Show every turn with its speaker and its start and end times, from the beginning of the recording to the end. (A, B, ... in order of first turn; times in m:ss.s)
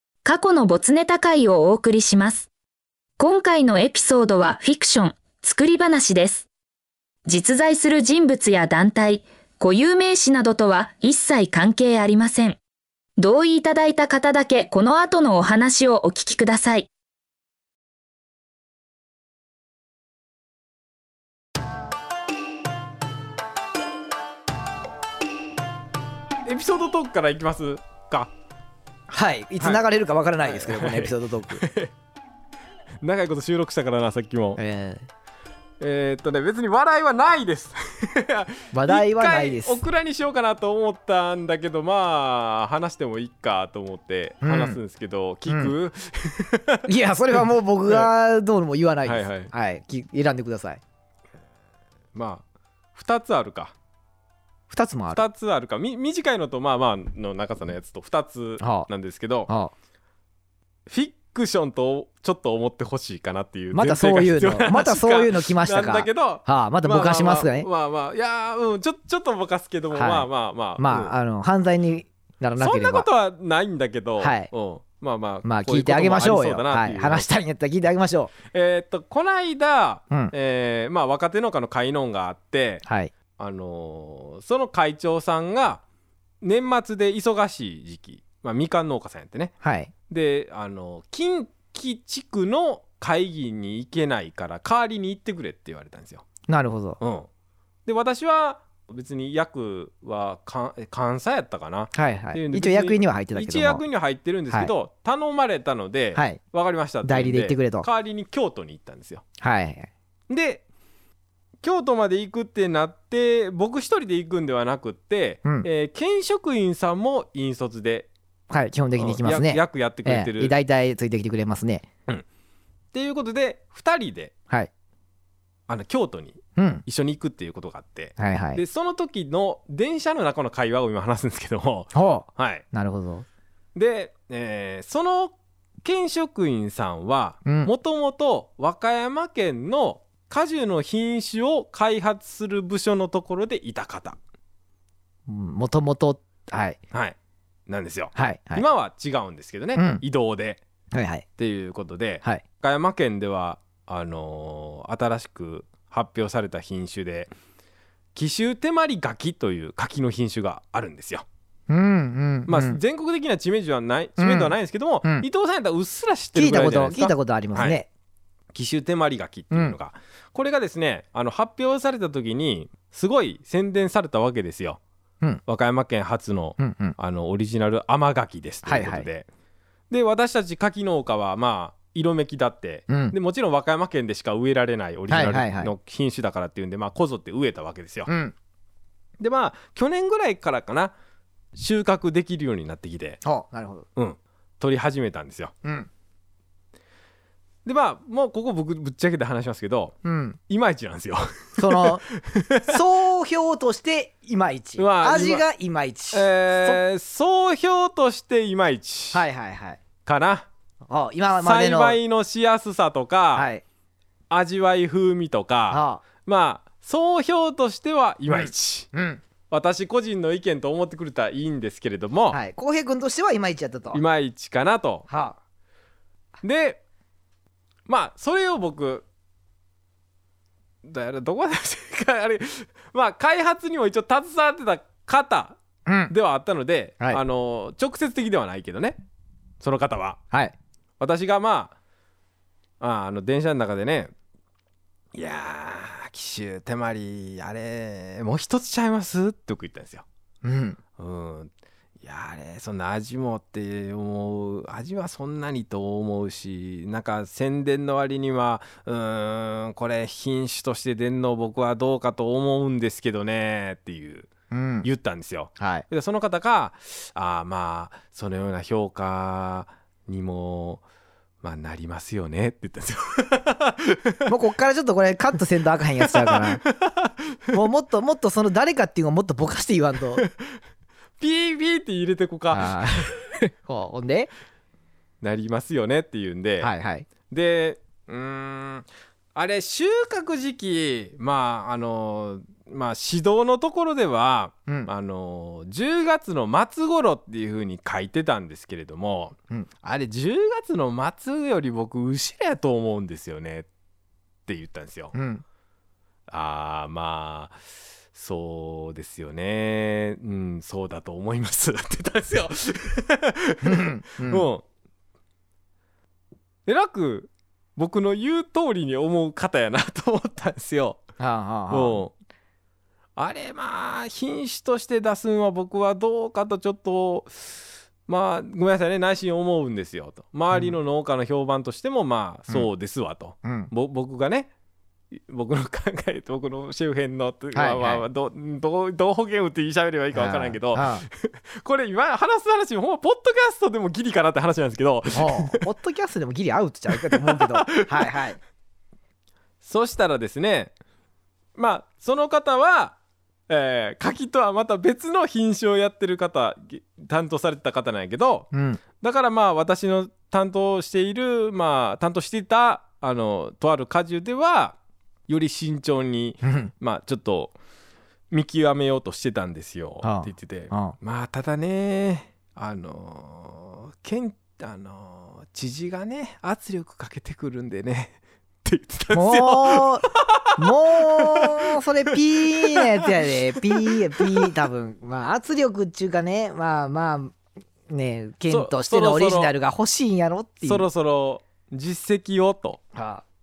0:00.2-0:02.5 A
0:03.2-0:06.5 A
0:07.2-0:12.6 A
0:13.2-0:16.9 A
0:26.4-0:28.3 B
0:29.1-0:31.7 C
0:30.4-0:31.9 B
0:33.0-0:34.6 B
0:34.6-0:35.1 C
0:35.8-0:48.1 B
0:38.7-0:39.8 C
0:44.4-0:44.8 C
0:45.5-0:45.7 C
0:46.9-0:50.8 C
0:49.0-0:49.5 B
0:52.1-0:53.8 B
0:54.7-0:55.2 C
0:55.1-0:59.5 B
0:58.6-0:58.9 C
0:59.5-0:59.7 C
1:00.9-1:11.2 B
1:03.7-1:07.7 C
1:09.9-1:13.1 C
1:12.6-1:17.3 B
1:14.2-1:14.5 C
1:15.4-1:18.3 C
1:18.5-1:22.8 B
1:22.8-1:23.1 C
1:23.4-1:25.8 B
1:26.4-1:29.5 B
1:29.6-1:29.9 C
1:30.1-1:36.2 B
1:36.5-1:37.0 C
1:37.0-1:37.3 B
1:37.9-1:49.2 B
1:41.9-1:43.8 C
1:46.2-1:46.4 C
1:47.0-1:47.9 C
1:49.4-1:49.9 C
1:50.3-1:50.6 B
1:51.6-1:58.1 B
1:58.5-2:01.9 C
1:59.0-2:00.6 B
2:02.9-2:04.3 B
2:05.7-2:12.6 B
2:06.6-2:06.8 C
2:08.2-2:08.6 C
2:11.9-2:13.3 C
2:13.8-2:24.2 B
2:17.4-2:17.7 C
2:25.3-2:26.8 C
2:26.9-2:30.6 B
2:28.2-2:28.6 C
2:29.8-2:30.0 C
2:30.9-2:31.3 C
2:31.4-2:37.3 B
2:38.2-2:41.3 B
2:41.7-2:42.8 C
2:42.5-2:47.8 B
2:44.2-2:45.3 C
2:46.4-2:47.9 C
2:48.5-2:54.8 B
2:49.5-2:49.8 C
2:55.5-2:59.3 B
2:56.6-2:57.0 C
2:58.7-2:59.1 C
2:59.9-3:08.1 B
3:02.9-3:03.2 C
3:05.1-3:05.7 C
3:08.1-3:08.3 C
3:09.2-3:11.0 B
3:11.5-3:13.2 B
3:13.2-3:13.9 C
3:14.0-3:15.5 B
3:15.6-3:15.9 C
3:17.6-3:20.0 B
3:20.0-3:20.4 C
3:20.5-3:22.8 B
3:21.6-3:22.1 C
3:22.7-3:26.8 C
3:24.8-3:25.4 B
3:26.1-3:29.2 B
3:29.1-3:29.8 C
3:30.1-3:30.5 B
3:30.9-3:32.0 C
3:31.4-3:33.5 B
3:33.4-3:33.6 C
3:34.3-3:38.9 B
3:35.7-3:36.0 C
3:38.3-3:39.2 C
3:39.5-3:42.4 B
3:42.3-3:44.0 C
3:43.9-3:45.1 B
3:45.1-3:45.4 C
3:46.4-3:46.8 B
3:47.9-3:49.0 B
3:50.8-3:55.6 B
3:55.9-3:56.1 C
3:56.1-3:59.0 B
3:59.6-4:00.2 B
4:00.3-4:00.6 C
4:01.0-4:01.7 B
4:02.8-4:04.1 B
4:05.1-4:10.0 B
4:10.4-4:10.8 C
4:11.0-4:24.3 B
4:24.5-4:24.9 C
4:24.8-4:30.8 B
4:25.6-4:25.8 C
4:31.4-4:34.3 B
4:34.3-4:36.6 C
4:36.0-4:37.4 B
4:37.5-4:40.2 C
4:41.2-4:43.2 B
4:42.5-4:44.3 C
4:45.2-4:46.7 B
4:46.6-4:47.1 C
4:47.3-5:03.7 B
5:04.5-5:05.1 B
5:05.1-5:05.4 C
5:06.3-5:07.6 B
5:08.1-5:14.6 B
5:13.6-5:14.5 C
5:16.7-5:21.0 B
5:21.2-5:22.0 C
5:21.7-5:22.1 B
5:23.2-5:34.5 B
5:33.4-5:33.7 C
5:35.1-5:45.7 B
5:37.5-5:38.0 C
5:40.1-5:41.0 C
5:45.1-5:48.4 C
5:46.9-5:48.2 B
5:49.6-5:50.7 B
5:51.6-5:53.0 B
5:53.5-5:58.5 B
5:58.5-5:58.8 C
5:59.0-6:04.8 B
6:05.3-6:07.5 B
6:06.4-6:06.7 C
6:08.3-6:24.5 B
6:10.0-6:11.0 C
6:19.1-6:27.4 C
6:27.9-6:30.9 C
6:28.5-6:29.5 B
6:30.6-6:32.8 B
6:33.0-6:33.2 C